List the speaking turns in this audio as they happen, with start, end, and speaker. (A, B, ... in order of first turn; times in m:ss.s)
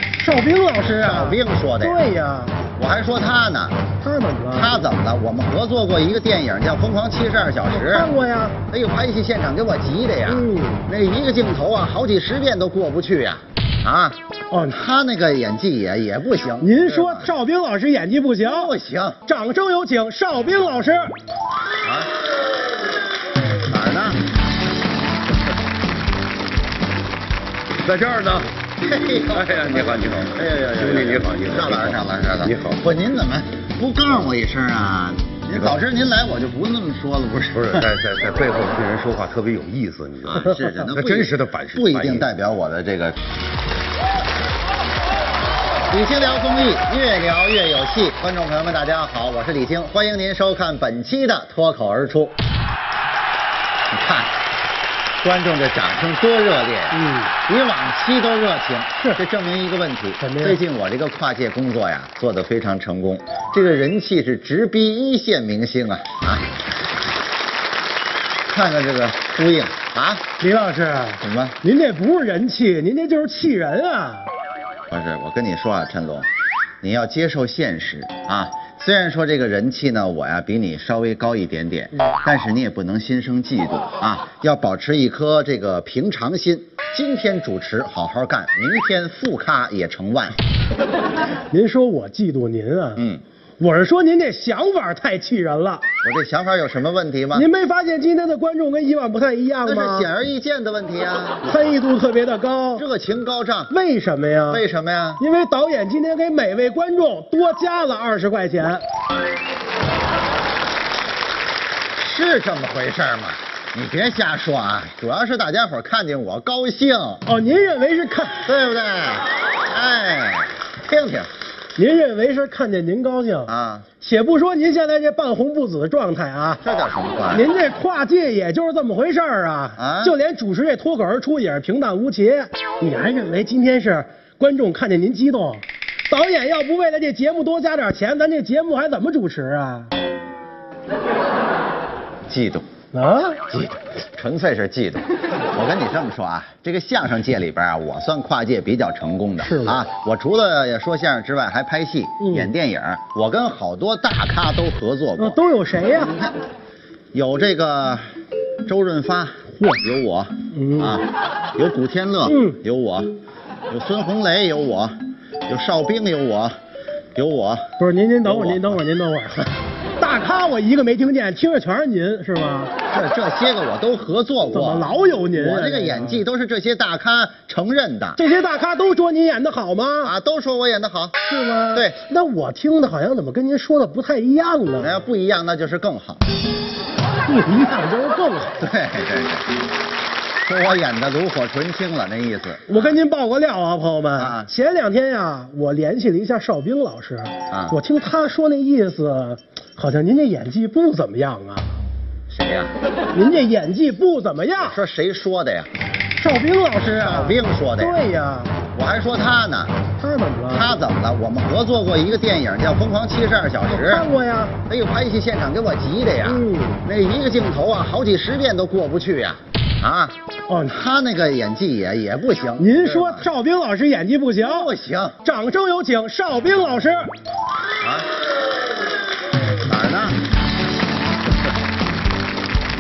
0:00.2-0:02.6 A
0:00.8-0:02.0 B
0:02.8-0:03.8 B
0:04.0-0:04.8 A
0:04.5-0:08.1 B
0:07.7-0:08.6 A
0:08.7-0:14.2 B
0:10.3-0:10.9 A
0:14.5-0:14.8 A
0:14.7-0:17.3 B
0:16.6-0:18.7 A
0:18.4-0:19.2 B
0:19.3-0:21.1 A
0:21.8-0:22.1 B
0:23.6-0:24.2 B
0:27.8-0:28.5 C
0:28.8-0:37.9 B
0:29.3-0:32.8 C
0:37.5-0:42.3 C
0:40.3-0:43.2 B
0:45.9-0:52.4 B
0:53.9-0:54.4 B
0:55.2-1:06.5 B
0:56.9-0:57.3 A
1:00.2-1:00.6 A
1:08.5-1:10.3 B
1:10.4-1:14.3 A
1:11.2-1:11.6 B
1:14.9-1:16.3 B
1:16.8-1:30.4 B
1:31.5-1:33.0 A
1:33.0-1:33.2 B
1:33.6-1:35.8 A
1:36.0-1:37.5 B
1:37.3-1:40.1 A
1:39.6-1:41.4 B
1:41.4-1:42.8 A
1:42.8-1:43.7 B
1:43.7-1:44.6 A
1:44.5-1:45.2 B
1:45.2-1:48.8 A
1:52.0-1:57.2 B
1:57.3-1:58.5 A
1:58.4-2:01.3 B
2:01.8-2:06.6 A
2:03.5-2:03.9 B
2:06.6-2:07.5 B
2:07.3-2:19.9 A
2:09.8-2:10.2 B
2:22.3-2:22.7 B
2:22.9-2:23.7 A
2:24.1-2:35.4 B
2:29.4-2:29.8 A
2:32.2-2:32.5 A
2:35.2-2:36.1 A
2:35.9-2:36.4 B
2:37.1-2:38.1 B
2:38.7-2:43.1 B
2:40.5-2:41.0 A
2:42.2-2:42.6 A
2:43.7-2:46.6 B
2:47.2-2:47.7 B
2:47.8-2:52.7 A
2:48.2-2:48.8 B
2:52.9-2:58.2 B
2:54.5-2:56.2 A
2:58.2-3:00.1 A
3:00.0-3:01.2 B
3:01.2-3:05.0 A
3:01.7-3:02.0 B
3:04.8-3:06.2 B
3:07.2-3:08.6 A
3:08.6-3:09.5 B
3:10.4-3:13.0 B
3:12.7-3:21.7 A
3:14.2-3:14.5 B
3:17.5-3:17.8 B
3:22.3-3:22.8 B
3:23.1-3:24.8 A
3:24.6-3:25.7 B
3:26.2-3:28.5 A
3:26.8-3:28.0 B
3:28.7-3:29.8 B
3:30.0-3:30.7 A
3:30.5-3:34.1 B
3:33.7-3:34.6 A
3:34.7-3:40.2 B
3:36.2-3:36.8 A
3:40.5-3:40.8 A
3:40.7-3:43.3 B
3:42.6-3:44.7 A
3:44.4-3:45.2 B
3:45.2-3:47.1 A
3:47.8-3:48.1 B
3:49.6-3:50.2 B